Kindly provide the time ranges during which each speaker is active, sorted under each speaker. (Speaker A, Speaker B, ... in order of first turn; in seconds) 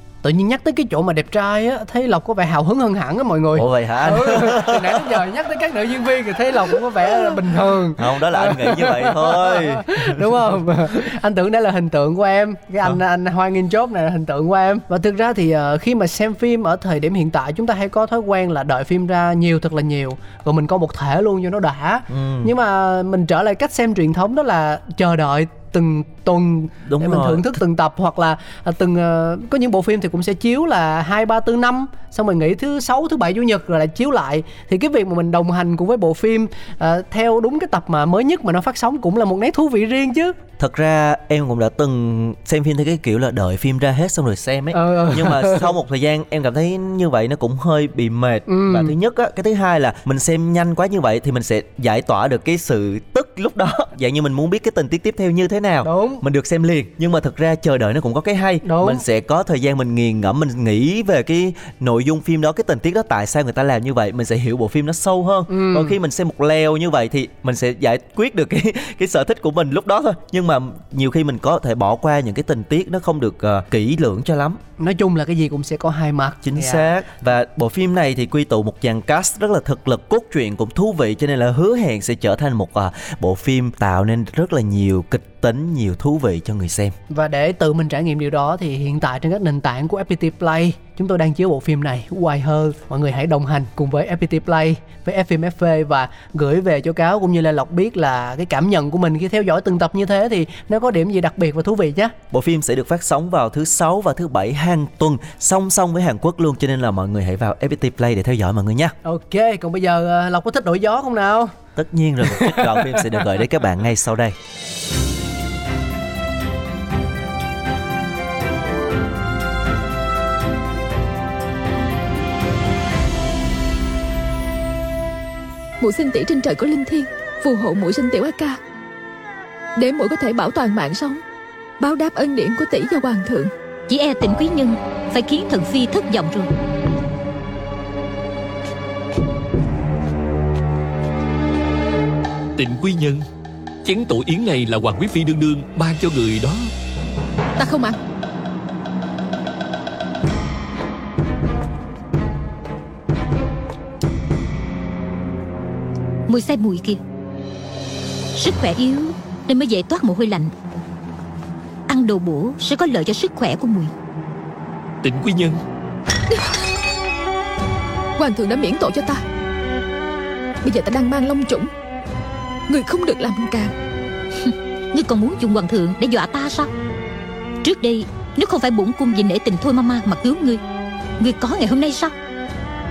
Speaker A: 0.2-40.4, 44.7-45.7, 48.5-48.9, 55.8-56.2, 58.6-59.0, 65.5-66.0, 74.8-76.9, 87.1-102.2, 109.0-111.5, 112.3-113.1
Speaker B: 3.5-5.2, 8.0-10.6, 22.1-22.5, 26.9-27.6, 40.6-74.6, 76.4-87.0, 102.3-109.0, 111.8-114.4
Speaker C: 125.8-128.6, 129.8-131.2, 131.8-133.5, 147.6-148.0, 168.2-169.2, 170.6-171.7, 172.7-173.7
Speaker D: 133.9-136.5, 156.3-157.0, 158.3-160.5, 161.9-163.9, 174.4-176.7, 177.6-180.6, 181.2-182.1
Speaker E: 142.6-143.2, 143.8-146.7, 165.0-165.6